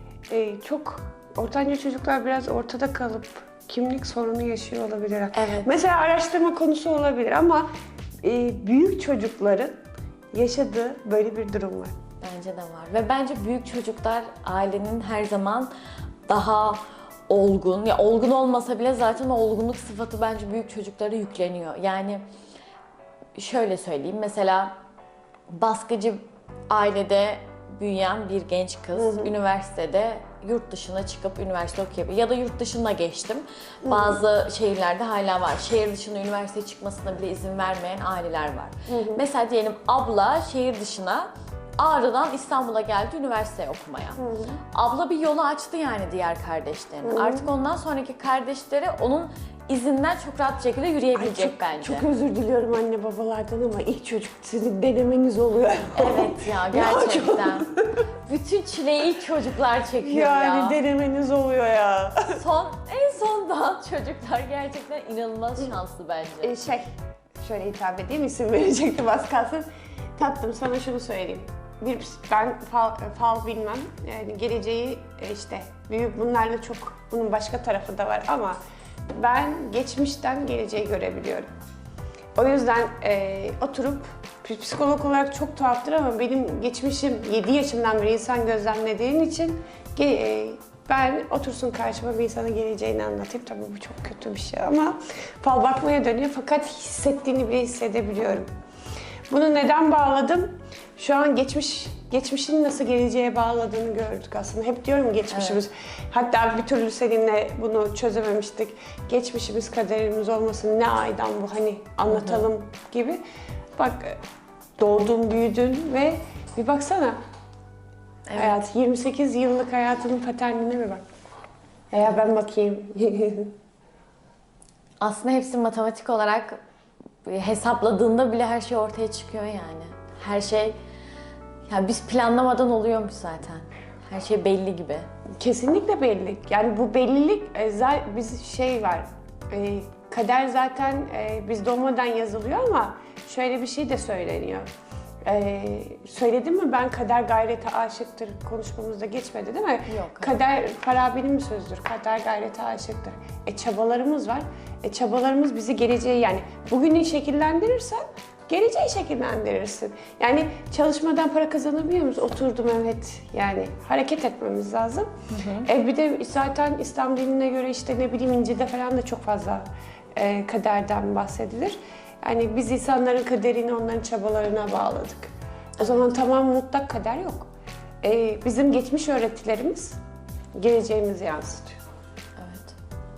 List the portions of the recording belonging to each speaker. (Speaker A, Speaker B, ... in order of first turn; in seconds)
Speaker A: 0.3-7.7, 8.2-9.8, 10.3-11.9, 29.0-29.3, 33.8-34.2, 38.9-39.2, 44.2-44.6, 47.0-47.5, 51.1-58.0, 60.0-62.4, 66.4-66.9, 67.4-78.6, 79.2-81.5, 82.4-98.5, 99.3-113.2, 113.8-114.2, 114.8-117.2, 118.3-121.0, 121.9-123.5, 135.4-144.7, 145.2-165.1, 165.6-169.7, 170.2-177.5, 178.0-180.0, 180.6-181.7
Speaker B: 5.3-5.7, 12.2-15.7, 16.3-22.2, 23.4-24.7, 25.5-41.3, 41.8-44.2, 44.7-52.1, 56.0-57.7, 58.3-60.8, 62.3-66.5, 105.3-105.6, 112.1-112.5, 118.3-118.7, 125.0-126.6, 127.2-130.8, 131.7-135.1, 149.9-150.4, 165.3-165.7, 182.4-182.8